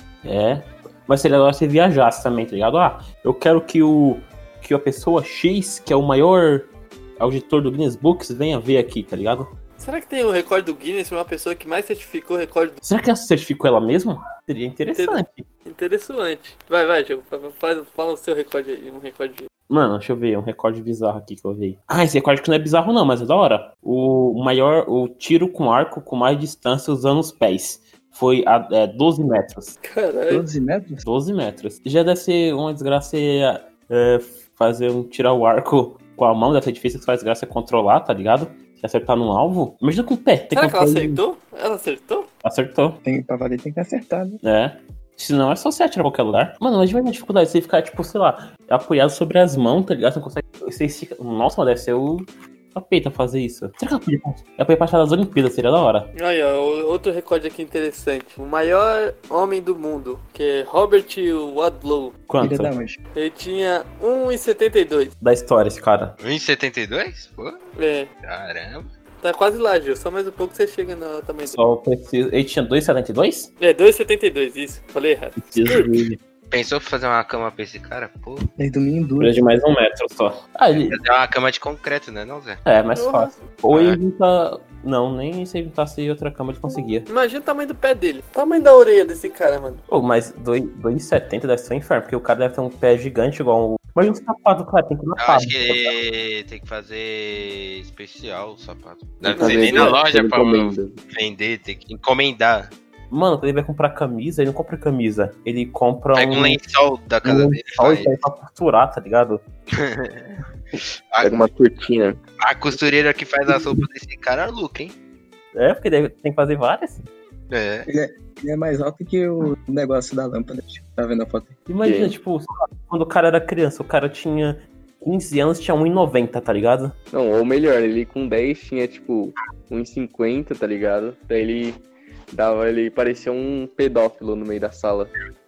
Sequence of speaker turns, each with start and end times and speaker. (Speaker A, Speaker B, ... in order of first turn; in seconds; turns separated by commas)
Speaker A: 0.2-9.5, Speaker B: 9.8-12.8, Speaker A: 12.8-15.4, Speaker B: 14.9-19.5, Speaker A: 19.7-29.8, Speaker B: 29.8-30.4, Speaker C: 30.3-31.0, Speaker A: 31.0-41.2, Speaker B: 40.5-42.3, Speaker A: 42.4-43.0, Speaker C: 43.0-44.4, Speaker A: 44.4-56.1, Speaker B: 56.1-62.1, Speaker A: 62.3-62.7, Speaker C: 62.4-63.0, Speaker B: 63.1-65.1, Speaker A: 65.2-66.2, Speaker D: 66.2-67.6, Speaker B: 67.8-68.1, Speaker D: 68.2-68.9, Speaker B: 69.2-71.6, Speaker A: 71.5-73.5, Speaker B: 73.6-75.9, Speaker A: 75.4-76.2, Speaker D: 76.5-78.4, Speaker C: 78.6-79.4, Speaker A: 79.2-81.0, Speaker D: 80.9-82.6, Speaker A: 82.6-87.1, Speaker B: 83.0-83.4, Speaker D: 83.7-84.0, Speaker B: 87.1-89.8, Speaker A: 89.9-95.9, Speaker D: 95.2-102.7, Speaker E: 99.2-101.0, Speaker B: 99.3-100.0, Speaker A: 103.1-106.6, Speaker D: 106.1-108.1, Speaker A: 107.2-109.4, Speaker D: 109.8-111.3, Speaker E: 111.2-112.2, Speaker D: 112.4-114.9, Speaker A: 115.5-117.0, Speaker D: 117.5-117.9, Speaker C: 117.9-121.7, Speaker A: 121.7-126.9, Speaker E: 121.8-122.1, Speaker E: 127.1-135.1